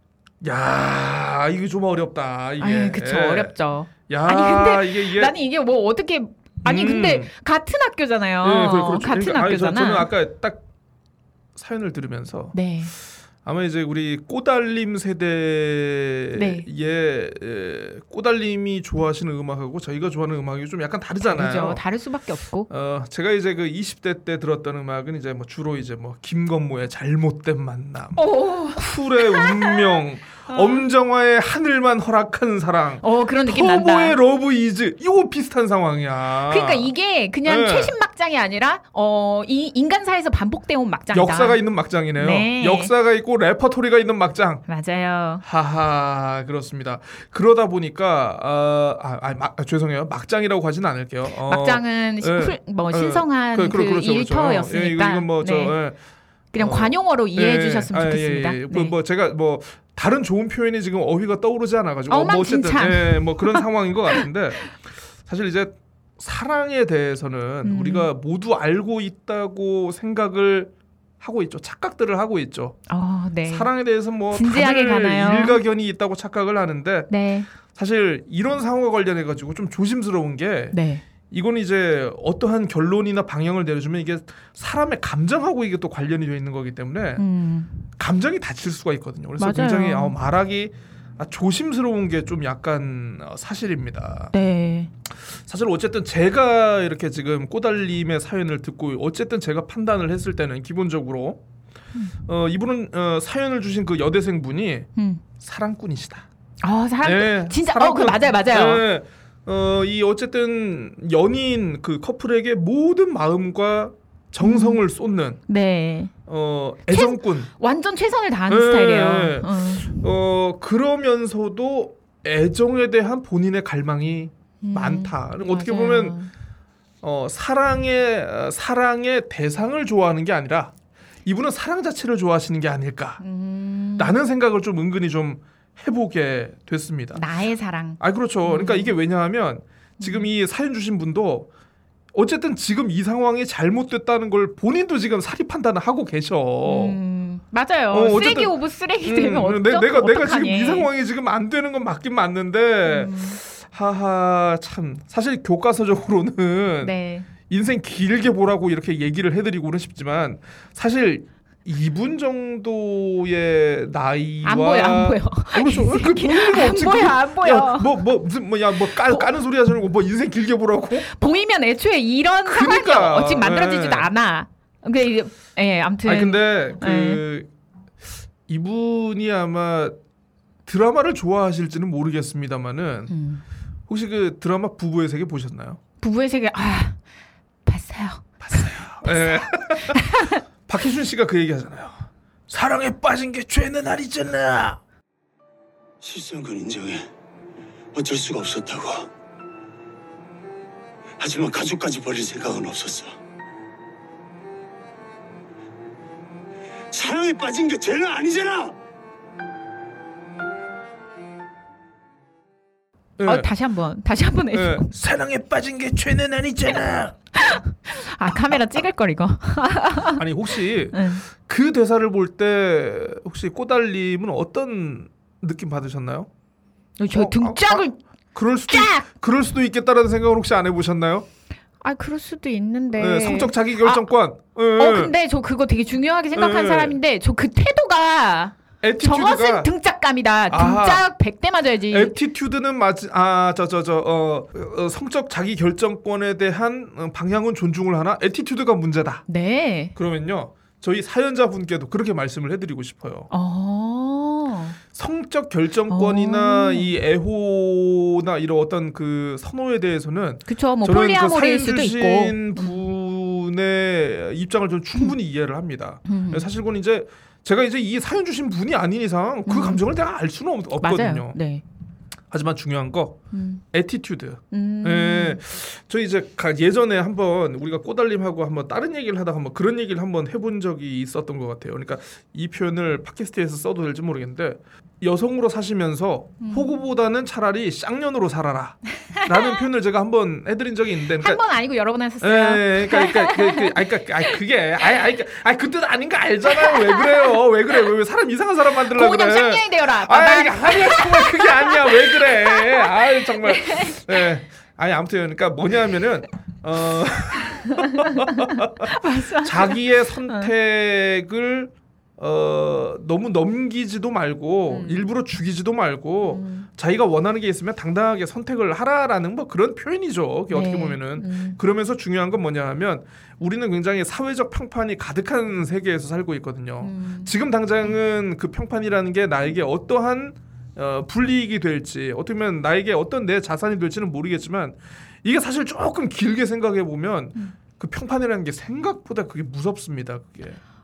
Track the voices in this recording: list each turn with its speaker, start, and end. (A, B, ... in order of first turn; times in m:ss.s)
0:00.4-0:03.5 A
0:02.6-0:10.1 B
0:04.1-0:05.3 A
0:06.6-0:07.3 A
0:08.4-0:10.6 A
0:11.6-0:12.6 A
0:12.5-0:12.9 B
0:13.4-0:21.8 A
0:16.3-0:16.7 B
0:21.2-0:22.7 B
0:22.7-0:28.2 A
0:28.1-0:30.8 B
0:28.7-0:36.9 A
0:33.0-0:34.2 B
0:36.5-0:41.6 B
0:37.4-0:37.9 A
0:41.1-0:44.6 A
0:42.2-0:42.9 B
0:44.7-0:45.4 B
0:45.4-0:56.0 A
0:51.4-0:55.8 B
0:56.5-0:59.0 B
0:56.6-1:12.8 A
1:02.1-1:03.6 B
1:07.6-1:08.1 B
1:12.9-1:13.7 B
1:13.5-1:20.8 A
1:14.3-1:15.6 B
1:17.1-1:17.5 B
1:20.7-1:21.0 B
1:21.3-1:27.2 A
1:27.2-1:27.8 B
1:28.0-1:34.3 A
1:29.4-1:30.2 B
1:34.3-1:34.9 B
1:35.1-1:41.4 A
1:42.2-1:46.3 A
1:45.0-1:45.2 B
1:46.6-1:48.8 B
1:47.0-1:55.4 A
1:54.4-1:54.8 B
1:55.5-1:56.1 B
1:56.3-1:57.5 A
1:56.9-2:00.0 B
1:58.5-2:06.2 A
2:04.6-2:06.3 B
2:07.0-2:10.7 A
2:11.2-2:13.2 A
2:13.2-2:14.2 B
2:14.0-2:17.2 A
2:17.1-2:19.0 B
2:18.0-2:21.5 A
2:20.0-2:20.3 B
2:22.1-2:27.0 A
2:26.6-2:30.9 B
2:27.9-2:51.0 A
2:32.8-2:33.4 B
2:36.8-2:37.3 B
2:44.4-2:48.0 B
2:51.0-2:57.2 B
2:52.4-2:54.1 A
2:56.0-2:57.5 A
2:58.5-3:00.0 A
3:00.6-3:03.1 A
3:03.1-3:03.4 B
3:03.9-3:05.8 A
3:06.0-3:07.0 B
3:07.6-3:10.4 B
3:08.4-3:14.8 A
3:16.0-3:17.1 C
3:17.9-3:19.1 C
3:21.2-3:23.2 C
3:26.9-3:28.8 C
3:33.2-3:33.5 A
3:33.2-3:34.9 B
3:34.5-3:37.1 A
3:37.4-3:40.2 B
3:40.2-3:46.3 A
3:40.9-3:41.2 B
3:47.0-3:48.0 B
3:47.1-3:51.3 A
3:48.7-3:49.1 B
3:51.8-3:54.1 B
3:52.9-3:55.1 A
3:54.8-4:02.1 B
3:56.3-3:57.0 A
3:58.8-3:59.7 A
4:00.5-4:01.0 A
4:01.9-4:09.2 A
4:09.3-4:09.9 B
4:09.9-4:13.3 A
4:13.3-4:14.8 B
4:14.9-4:31.4 A
4:15.9-4:16.9 B
4:20.5-4:22.8 B
4:26.0-4:26.4 B
4:29.4-4:29.8 B
4:30.8-4:31.6 B
4:32.3-4:51.4 A
4:33.3-4:33.6 B
4:34.5-4:35.4 B
4:46.4-4:46.7 B
4:49.0-4:49.6 B
4:51.2-4:54.3 B
4:52.2-5:40.6 A
4:56.5-4:57.3 B
4:58.9-5:04.2 B
5:07.6-5:10.5 B
5:14.7-5:15.0 B
5:16.2-5:16.7 B
5:20.5-5:21.6 B
5:26.8-5:27.3 B